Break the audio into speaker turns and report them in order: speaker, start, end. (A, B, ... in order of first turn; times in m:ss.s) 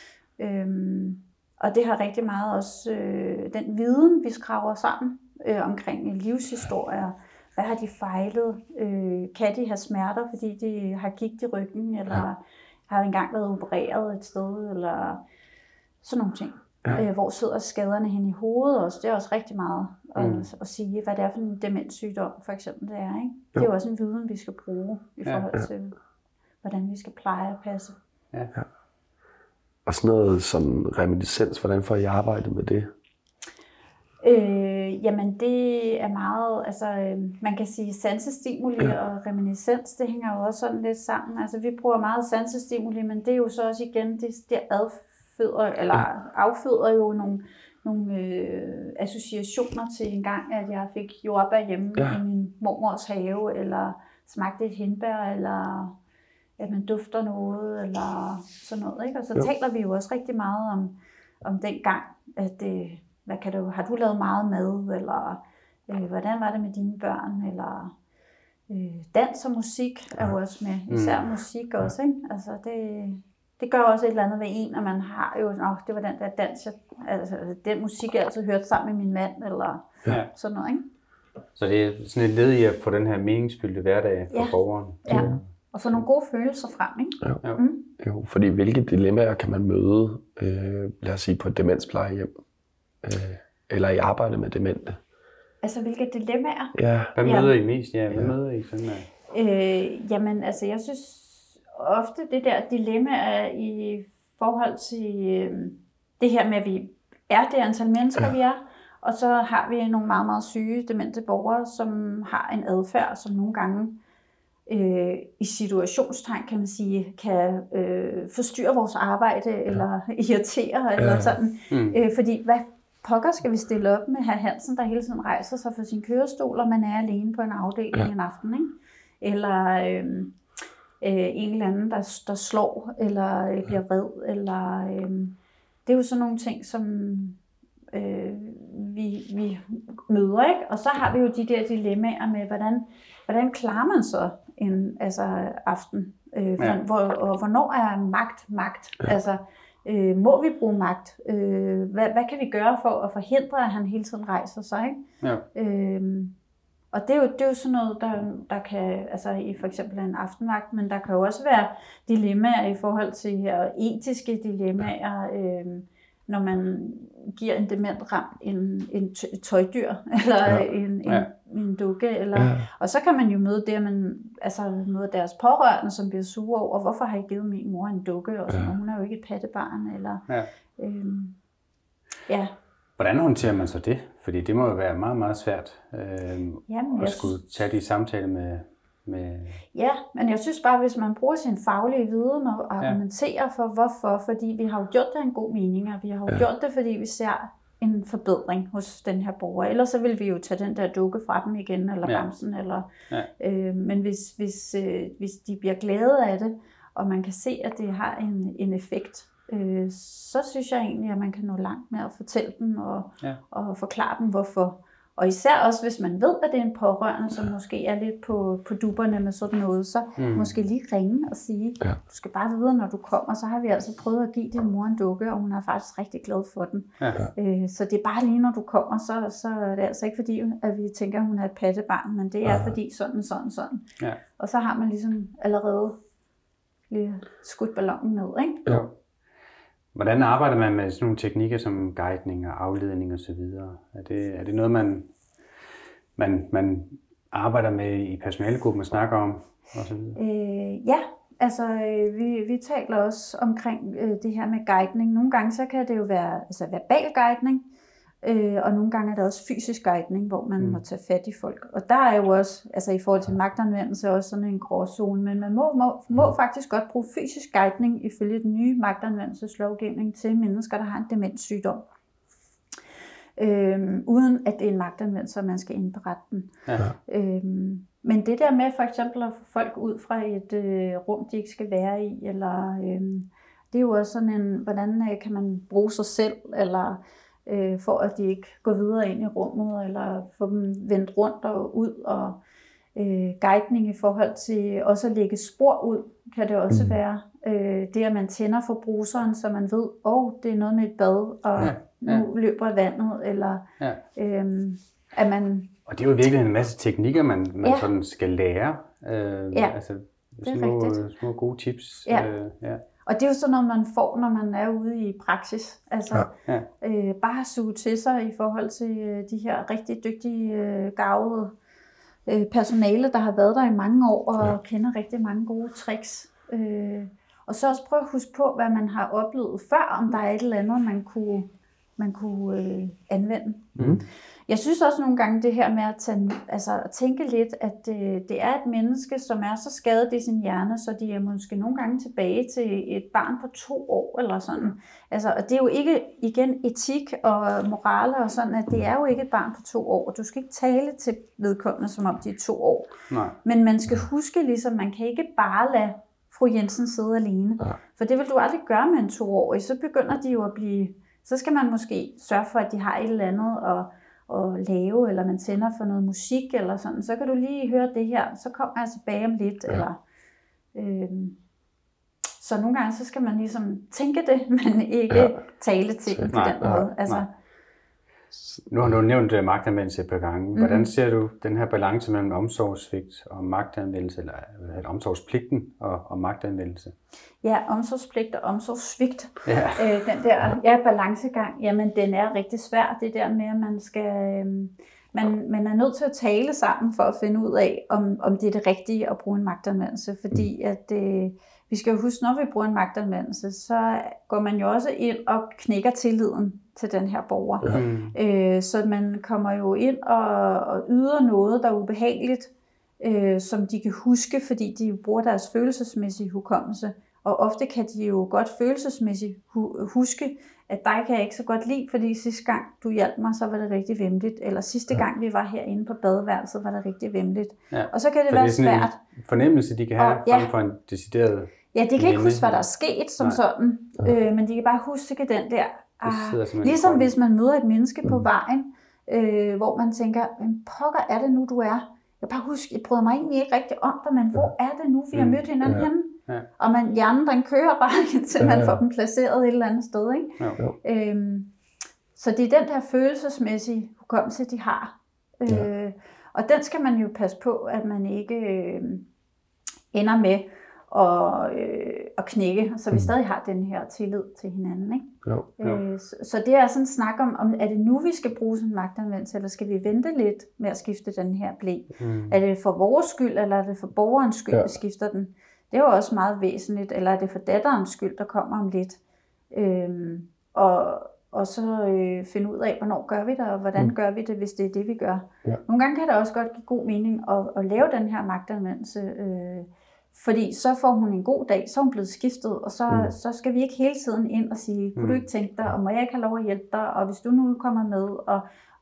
0:00.4-0:15.2 A
0:16.0-0:26.0 A
0:20.2-0:20.5 B
0:26.6-0:28.0 A
0:29.9-0:32.9 C
0:34.2-0:55.9 A
0:56.6-1:07.9 A
1:08.7-1:20.8 A
1:10.9-1:11.3 B
1:21.6-1:26.0 B
1:24.3-1:27.9 A
1:25.1-1:25.4 C
1:28.0-1:32.4 C
1:33.0-1:35.0 C
1:35.6-1:37.5 A
1:36.8-1:37.1 C
1:37.2-1:39.1 B
1:39.3-1:54.0 A
1:54.7-2:10.4 A
2:01.0-2:01.4 C
2:01.7-2:02.0 B
2:11.0-2:15.3 A
2:15.9-2:17.4 A
2:17.9-2:35.0 A
2:35.5-2:36.3 A
2:36.9-3:00.2 A
2:52.4-2:52.7 C
3:00.8-3:01.4 A
3:03.0-3:09.6 B
3:06.7-3:07.4 A
3:09.7-3:53.9 A
3:40.2-3:40.5 B
3:52.5-3:52.7 C
3:54.4-3:56.0 A
3:56.9-3:58.6 A
3:58.7-3:58.9 B
3:59.9-4:05.1 B
4:06.2-4:10.2 B
4:10.2-4:17.6 A
4:18.2-4:31.8 A
4:33.4-4:36.5 A
4:37.1-4:52.4 A
4:53.0-5:03.6 A
4:56.7-4:57.0 C
5:01.6-5:02.2 B
5:04.2-5:05.7 A
5:05.9-5:12.8 B
5:07.6-5:07.9 A
5:10.4-5:11.0 A
5:13.0-5:21.5 A
5:22.3-5:33.8 A
5:33.8-5:34.0 C
5:34.5-5:52.9 A
5:53.1-5:53.4 B
5:53.4-6:10.0 A
6:10.7-6:11.4 A
6:12.4-6:17.3 A
6:15.1-6:15.4 C
6:16.2-6:16.9 C
6:16.3-6:17.2 B
6:18.7-6:27.0 B
6:20.6-6:20.9 A
6:27.4-7:09.0 A
6:29.4-6:29.9 B
6:47.7-6:48.2 B
7:07.7-7:12.6 B
7:10.0-7:10.5 A
7:11.7-7:31.5 A
7:16.0-7:17.1 B
7:25.1-7:25.4 B
7:28.4-7:28.8 C
7:32.2-7:39.0 A
7:39.9-7:59.0 A
7:52.0-7:52.4 B
7:59.5-8:18.4 A
8:12.9-8:13.1 C
8:15.0-8:15.2 B